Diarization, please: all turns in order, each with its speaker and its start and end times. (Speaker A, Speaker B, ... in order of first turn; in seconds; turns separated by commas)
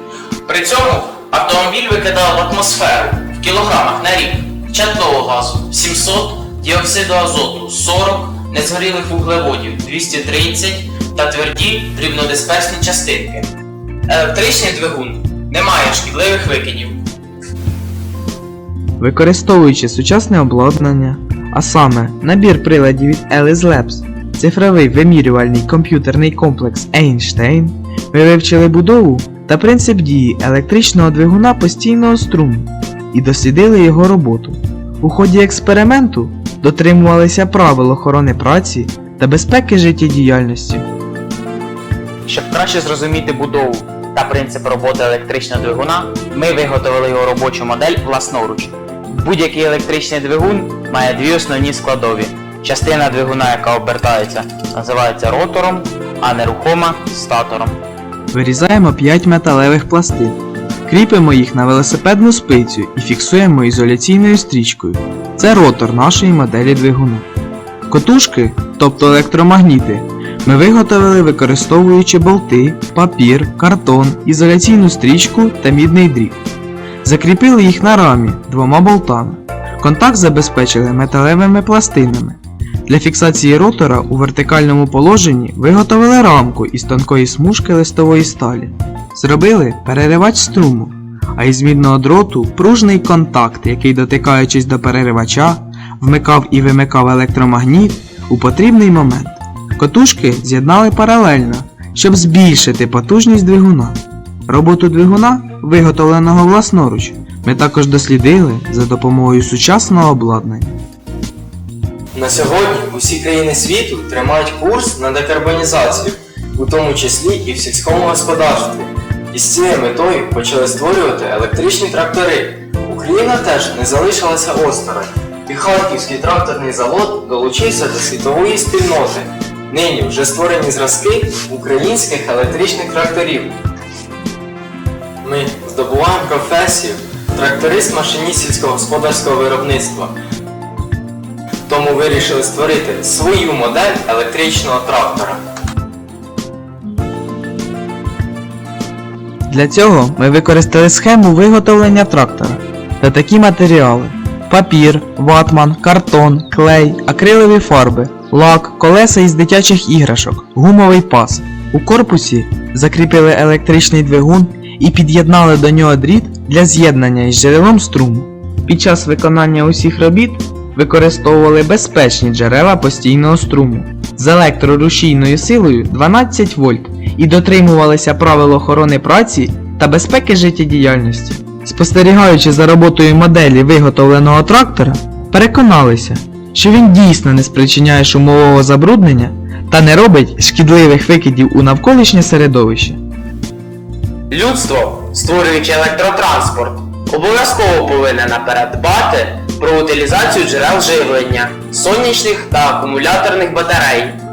Speaker A: 0.4-13.5, Speaker A: 14.1-17.0, Speaker B: 19.0-40.9, Speaker C: 42.2-57.8, Speaker B: 58.3-67.2, Speaker B: 67.9-76.4, Speaker B: 77.0-104.0, Speaker B: 104.5-110.8, Speaker D: 112.1-133.6, Speaker D: 135.2-140.1, Speaker D: 141.7-145.4, Speaker B: 149.5-193.0, Speaker A: 194.3-196.4, Speaker C: 194.3-204.2, Speaker A: 197.3-199.3, Speaker A: 200.0-204.0